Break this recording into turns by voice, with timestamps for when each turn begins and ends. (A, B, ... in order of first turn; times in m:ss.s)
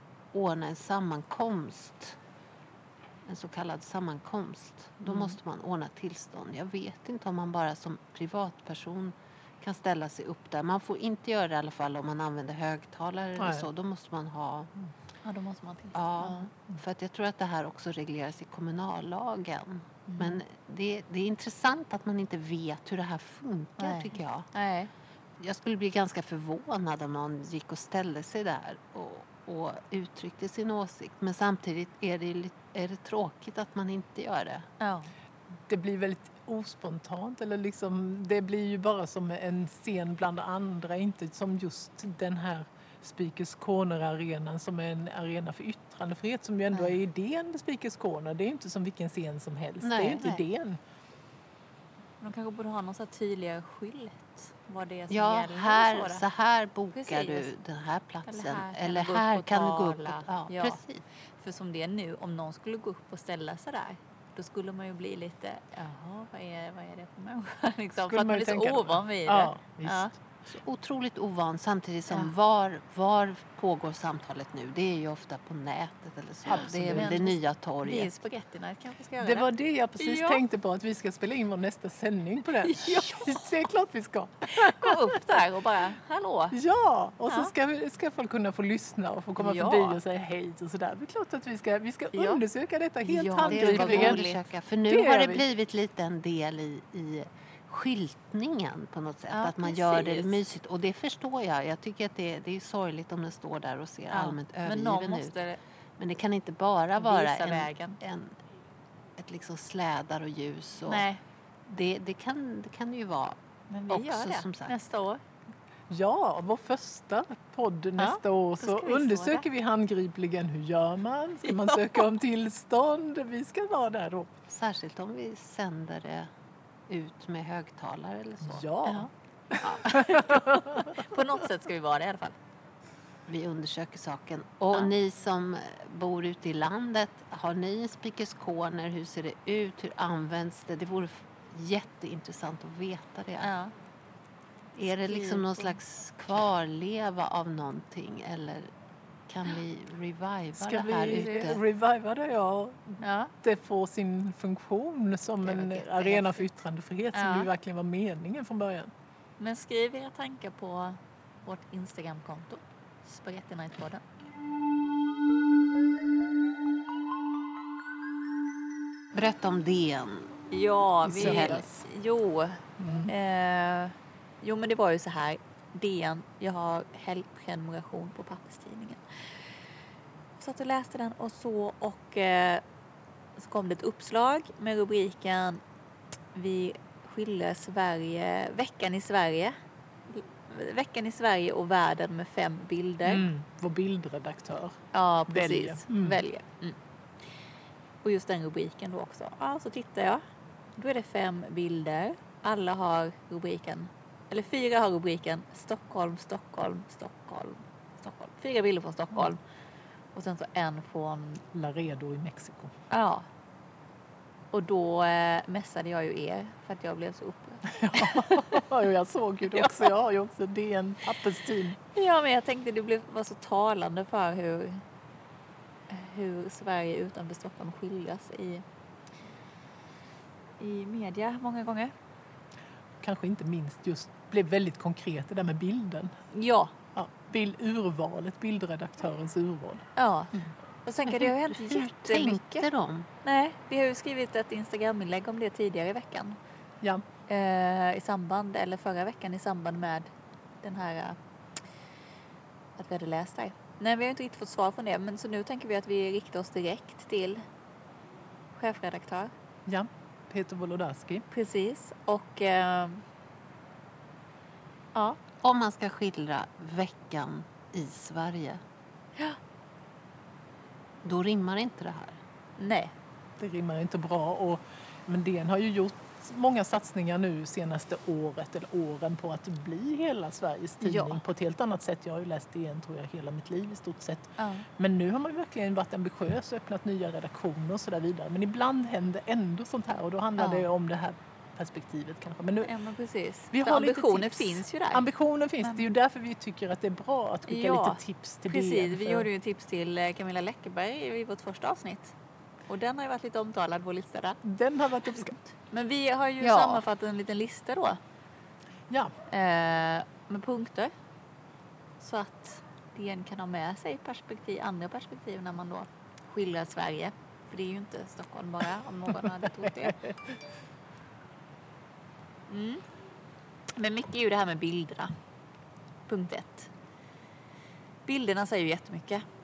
0:00.3-0:02.2 A
0:03.2-0:14.7 A
0:05.1-0:05.4 B
0:13.4-0:13.7 C
0:15.2-0:16.5 B
0:15.9-0:24.5 A
0:20.1-0:20.4 B
0:23.8-0:24.9 B
0:25.4-0:34.7 A
0:34.8-0:35.1 B
0:35.6-0:50.8 C
0:49.8-0:50.4 A
0:52.2-0:56.2 B
0:55.1-1:01.0 A
0:56.9-0:57.5 B
0:58.3-1:00.8 B
1:01.4-1:10.1 B
1:08.0-1:10.1 C
1:10.5-1:18.2 A
1:16.4-1:17.2 C
1:16.9-1:20.4 B
1:19.2-1:25.4 C
1:22.6-1:23.6 B
1:24.5-1:26.6 B
1:26.5-1:34.2 C
1:27.3-1:27.5 B
1:29.4-1:30.0 B
1:32.1-1:32.4 B
1:33.0-1:34.4 B
1:33.5-1:45.4 A
1:34.9-1:35.4 C
1:39.3-1:40.4 B
1:44.1-1:45.6 B
1:46.0-1:48.4 A
1:47.0-1:48.0 B
1:49.2-1:51.1 A
1:50.8-1:51.2 B
1:51.7-1:53.4 A
1:53.7-1:55.2 B
1:53.9-1:54.8 A
1:55.9-2:04.4 C
1:58.0-1:59.4 B
2:01.5-2:01.9 B
2:04.5-2:06.3 A
2:06.9-2:08.7 A
2:08.4-2:11.0 C
2:09.6-2:12.4 B
2:13.3-2:23.5 A
2:23.4-2:23.7 B
2:24.8-2:28.7 A
2:25.0-2:25.7 B
2:29.3-2:31.6 A
2:30.6-2:38.9 C
2:31.1-2:31.5 B
2:33.0-2:33.3 B
2:35.4-2:36.4 B
2:37.1-2:37.5 B
2:39.4-2:44.0 B
2:49.1-2:50.3 A
2:50.5-2:59.5 B
2:51.0-2:51.8 C
2:51.1-2:51.6 A
2:52.8-2:53.1 C
3:00.4-3:02.6 B
3:03.4-3:05.6 B
3:06.3-3:09.5 B
3:10.1-3:13.2 B
3:13.0-3:16.2 C
3:14.9-3:16.8 B
3:18.0-3:20.2 B
3:20.8-3:29.4 B
3:30.1-3:31.4 B
3:31.5-3:32.7 C
3:32.9-3:33.3 B
3:34.5-3:38.6 B
3:37.7-3:41.8 C
3:39.5-3:39.9 B
3:41.9-3:44.8 B
3:45.9-3:48.6 B
3:50.6-3:51.9 B
3:53.0-3:56.1 C
3:56.3-3:56.7 B
3:56.9-3:59.8 C
4:00.0-4:00.3 B
4:00.8-4:02.6 B
4:01.2-4:03.1 A
4:03.2-4:06.4 B
4:07.3-4:10.1 B
4:10.6-4:11.2 B
4:12.8-4:17.4 B
4:18.5-4:19.3 B
4:19.7-4:21.2 C
4:21.3-4:23.0 B
4:24.9-4:25.2 B
4:25.4-4:28.6 A
4:31.0-4:32.2 A
4:32.6-4:32.9 B
4:33.4-4:52.7 C
4:40.8-4:41.2 B
4:44.4-4:44.7 B
4:50.4-4:50.7 B
4:52.6-4:55.0 B
4:53.5-4:59.3 C
4:57.5-5:02.1 B
5:02.7-5:04.4 B
5:04.4-5:05.4 C
5:05.2-5:08.0 B
5:06.4-5:06.8 A
5:08.9-5:09.1 C
5:09.3-5:10.9 B
5:12.0-5:20.0 B
5:19.2-5:20.4 C
5:22.5-5:22.8 B
5:23.7-5:25.1 B
5:26.1-5:26.7 B
5:28.0-5:29.2 B